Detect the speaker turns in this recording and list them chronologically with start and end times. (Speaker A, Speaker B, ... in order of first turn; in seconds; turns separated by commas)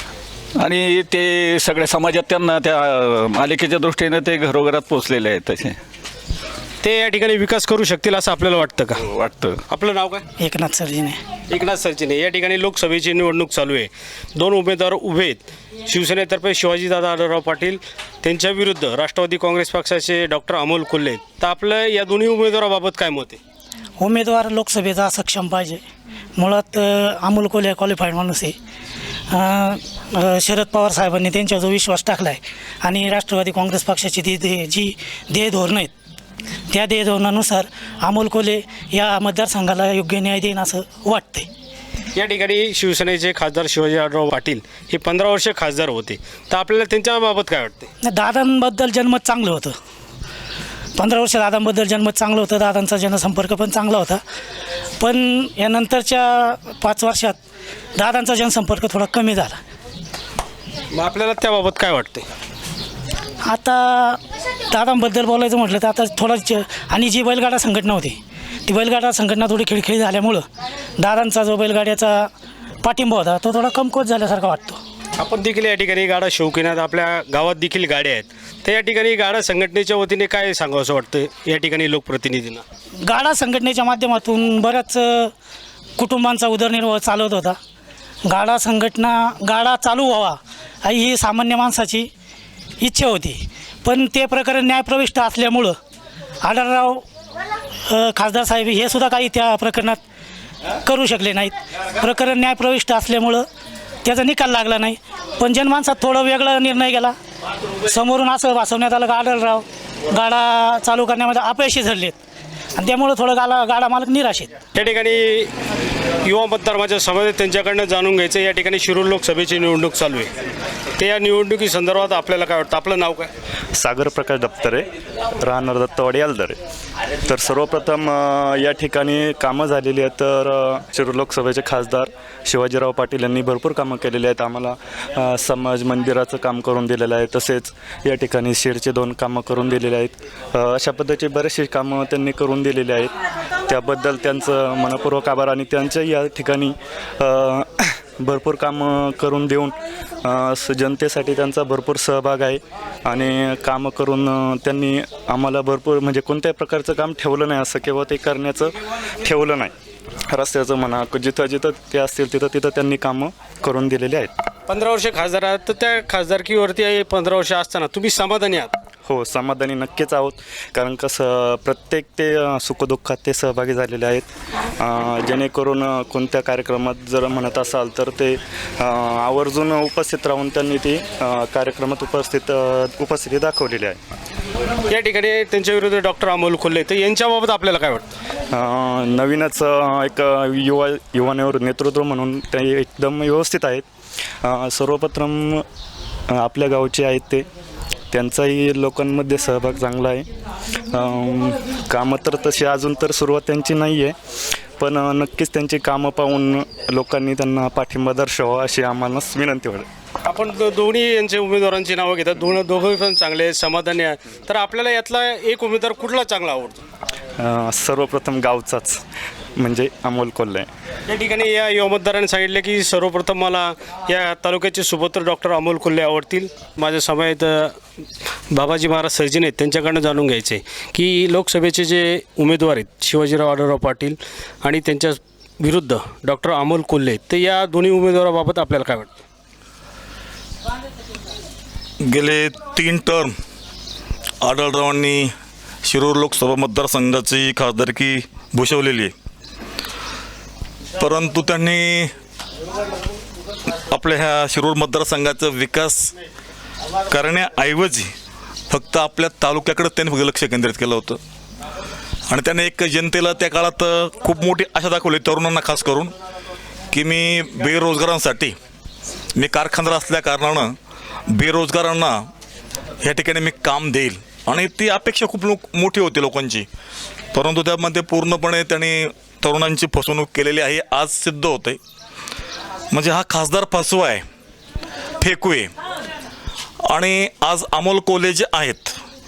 Speaker A: 0.6-5.8, Speaker B: 6.8-9.0, Speaker A: 9.0-9.6, Speaker B: 9.7-10.2, Speaker C: 10.4-11.2, Speaker B: 11.5-23.4, Speaker C: 24.0-25.8, Speaker C: 26.4-28.6, Speaker C: 29.3-35.9, Speaker C: 36.7-41.5, Speaker B: 42.1-47.9, Speaker C: 48.0-49.8, Speaker C: 51.0-54.2, Speaker C: 55.0-57.4, Speaker C: 58.0-59.6, Speaker B: 60.9-62.2, Speaker C: 63.5-64.2, Speaker C: 64.7-70.4, Speaker C: 71.0-72.3, Speaker C: 72.8-74.8, Speaker B: 75.2-82.6, Speaker C: 83.0-85.3, Speaker C: 86.0-87.6, Speaker C: 88.3-92.1, Speaker C: 92.8-95.8, Speaker C: 96.4-97.0, Speaker C: 97.9-100.0, Speaker C: 100.8-103.5, Speaker C: 104.0-107.2, Speaker C: 107.8-112.2, Speaker C: 112.8-114.6, Speaker B: 114.7-115.5, Speaker B: 116.2-120.3, Speaker B: 121.0-123.3, Speaker D: 123.8-124.8, Speaker D: 125.4-126.6, Speaker D: 127.2-143.1, Speaker D: 143.7-159.7, Speaker D: 160.3-164.3, Speaker B: 164.7-168.7, Speaker D: 169.0-174.3, Speaker D: 174.8-184.0, Speaker B: 184.9-188.1, Speaker D: 188.5-193.8, Speaker D: 194.4-195.6, Speaker D: 196.3-197.4, Speaker D: 198.1-200.2, Speaker D: 200.9-204.2, Speaker D: 204.8-209.9, Speaker B: 210.2-216.8, Speaker D: 217.4-219.0, Speaker D: 219.6-220.7, Speaker B: 221.1-227.8, Speaker B: 228.5-239.2, Speaker E: 242.0-243.3, Speaker E: 244.4-245.3, Speaker E: 245.8-249.1, Speaker E: 251.0-252.1, Speaker E: 253.9-256.1, Speaker E: 257.1-258.1, Speaker E: 258.7-261.2, Speaker E: 262.3-266.1, Speaker E: 266.9-268.5, Speaker E: 269.4-270.7, Speaker E: 271.3-272.2, Speaker E: 273.0-276.6, Speaker E: 277.3-281.8, Speaker E: 282.9-284.2, Speaker E: 285.2-285.7, Speaker E: 286.9-289.0